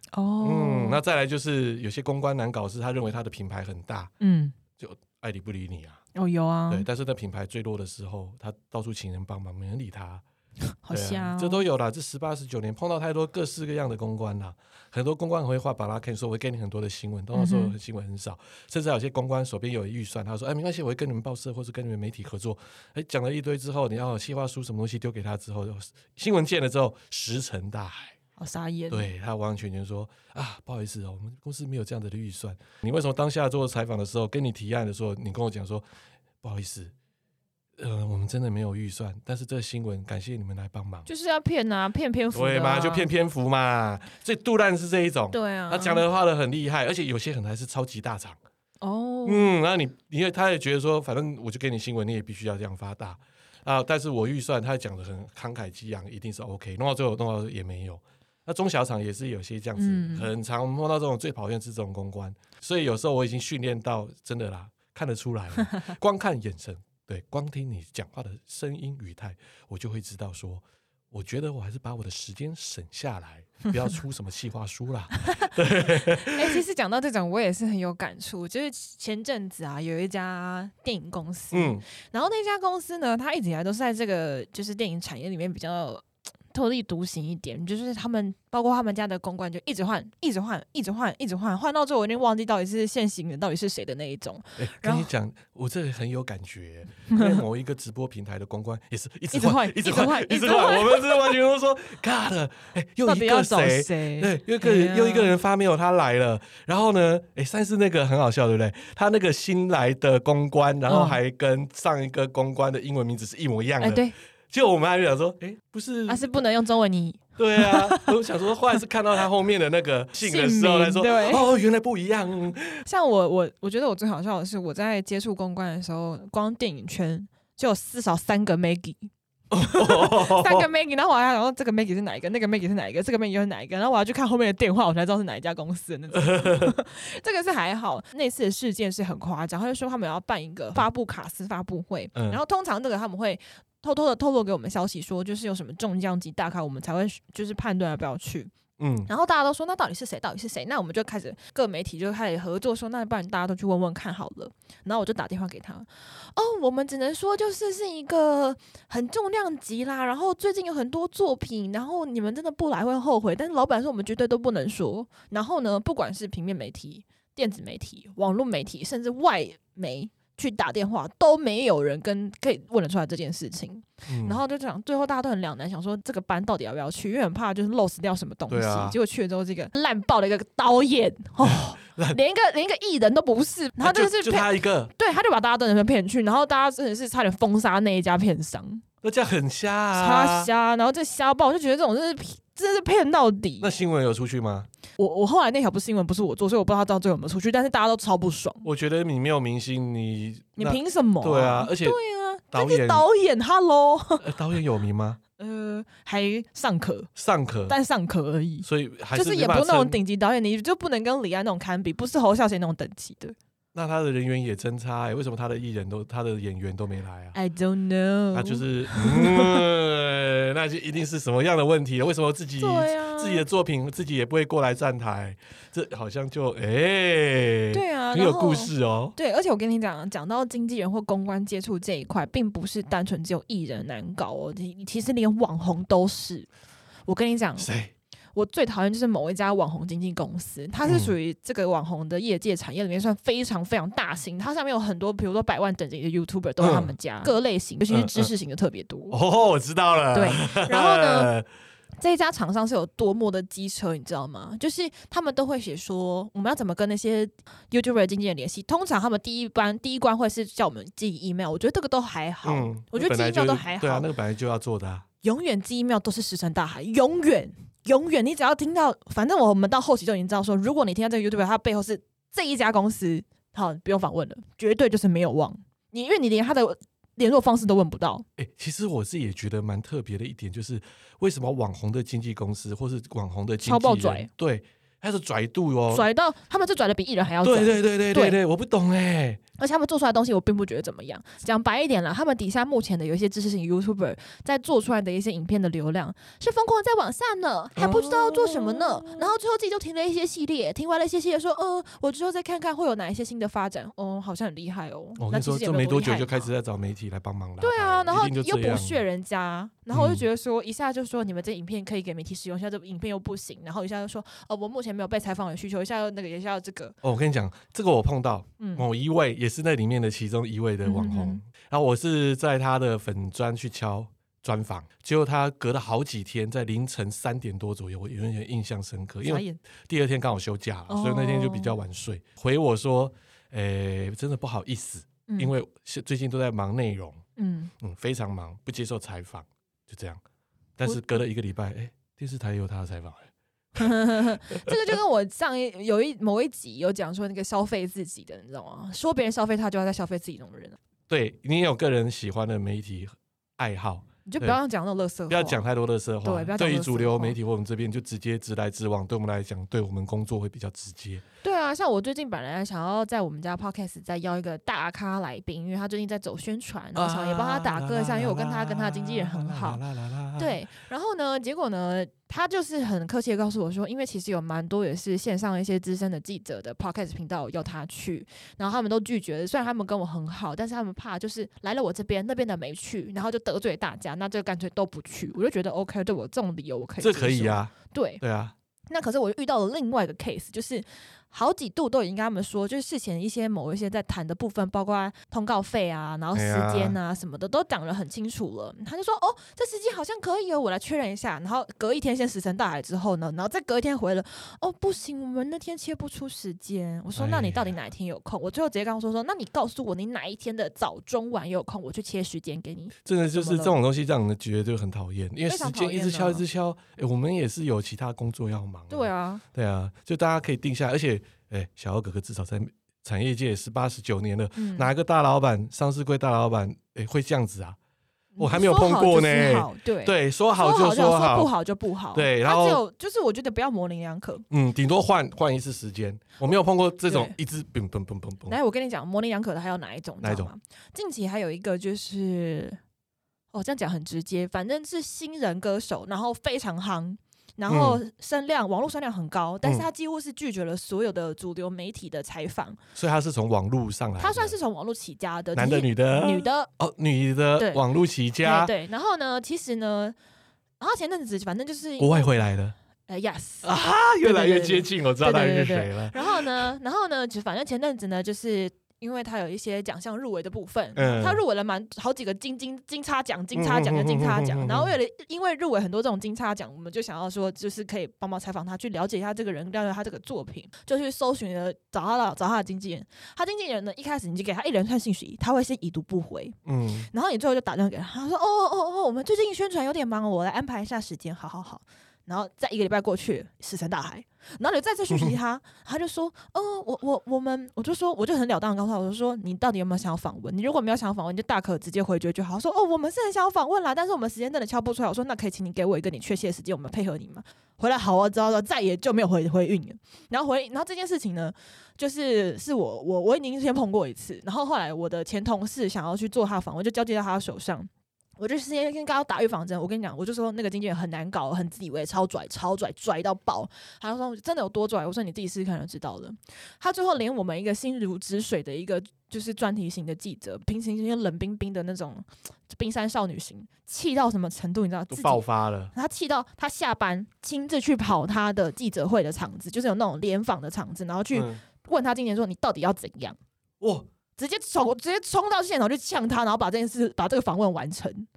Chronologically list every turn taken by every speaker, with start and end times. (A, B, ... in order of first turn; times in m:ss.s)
0:00.1-0:01.0 A
0:00.4-0:04.1 B
0:04.2-0:04.6 A
0:04.8-0:06.0 B
0:06.2-0:06.9 A
0:06.7-0:10.2 B
0:10.8-0:11.7 A
0:10.9-0:28.2 B
0:17.3-0:17.8 A
0:28.4-0:29.1 A
0:28.9-0:35.8 B
0:36.4-0:36.9 B
0:37.8-0:41.1 B
0:41.1-0:43.1 A
0:42.3-0:48.4 B
0:45.3-0:46.0 A
0:48.8-0:49.5 A
0:49.2-1:16.6 B
0:59.8-1:00.3 A
1:15.2-1:35.1 A
1:21.5-1:21.8 B
1:34.6-1:56.2 B
1:37.1-1:37.4 A
1:39.3-1:41.4 A
1:43.0-1:45.3 A
1:50.9-1:51.2 A
1:53.8-1:54.1 A
1:56.1-1:58.2 A
1:57.4-2:02.8 B
2:00.2-2:01.5 A
2:02.8-2:28.5 A
2:09.5-2:10.7 B
2:16.1-2:16.7 B
2:22.2-2:22.4 B
2:28.8-2:29.1 B
2:29.1-3:08.8 A
2:54.1-2:54.4 B
2:58.5-2:59.0 B
3:01.4-3:02.2 B
3:03.8-3:04.9 B
3:09.0-3:10.5 B
3:09.9-3:13.7 A
3:13.6-3:14.7 B
3:15.0-3:18.7 A
3:18.6-3:22.0 B
3:20.6-3:24.3 A
3:22.5-3:23.1 B
3:24.2-3:25.2 B
3:25.4-3:27.1 A
3:27.2-3:27.8 B
3:27.7-3:33.4 A
3:28.6-3:30.0 B
3:33.8-3:37.4 B
3:37.3-3:39.6 A
3:38.3-3:49.2 B
3:42.6-3:43.4 A
3:47.7-3:56.5 A
3:57.1-3:57.7 A
3:57.6-3:57.9 B
3:58.4-4:09.2 A
4:00.8-4:01.1 B
4:06.6-4:06.9 B
4:07.9-4:08.3 B
4:09.1-4:11.5 B
4:10.1-4:11.3 A
4:12.0-4:24.1 A
4:22.4-4:25.0 B
4:25.2-4:38.2 A
4:38.4-4:46.1 B
4:43.6-4:44.3 A
4:45.9-4:48.4 A
4:47.4-4:49.4 B
4:49.6-5:06.5 A
4:57.8-4:59.3 B
5:05.2-5:09.0 B
5:07.6-5:17.0 A
5:09.9-5:10.2 B
5:17.0-5:37.2 B
5:18.6-5:18.9 A
5:20.8-5:21.4 A
5:29.2-5:29.6 A
5:30.9-5:31.8 A
5:35.3-5:35.5 A
5:37.4-5:37.7 A
5:37.8-5:40.2 B
5:40.8-5:43.9 B
5:40.8-5:41.2 A
5:43.8-5:50.8 A
5:51.1-5:54.6 B
5:54.2-5:55.6 A
5:55.3-6:01.2 B
5:56.2-5:57.4 A
6:01.4-6:09.8 A
6:07.0-6:10.6 B
6:10.4-6:28.2 A
6:27.0-6:28.5 B
6:28.9-6:53.8 A
6:36.3-6:37.0 B
6:47.2-6:47.7 B
6:53.1-7:07.8 B
6:55.5-6:56.4 A
6:58.9-6:59.4 A
7:04.6-7:04.9 A
7:08.4-7:14.4 A
7:08.4-7:11.5 B
7:12.1-7:12.8 B
7:14.5-7:18.6 B
7:17.0-7:17.4 A
7:18.5-7:22.8 A
7:20.2-7:20.5 B
7:23.5-7:32.8 A
7:27.7-7:28.0 B
7:33.0-7:34.6 B
7:34.2-7:36.7 A
7:35.6-7:38.7 B
7:37.6-7:37.8 A
7:38.4-7:40.2 A
7:40.8-7:42.4 A
7:42.0-7:42.8 B
7:43.1-8:06.6 A
7:43.6-7:46.7 B
7:51.0-7:51.4 B
7:53.6-7:55.0 B
8:06.6-8:07.1 B
8:07.1-9:03.4 A
8:15.1-8:15.4 B
8:55.1-8:55.9 B
9:01.3-9:01.6 B
9:03.8-9:04.1 B
9:04.4-9:08.3 A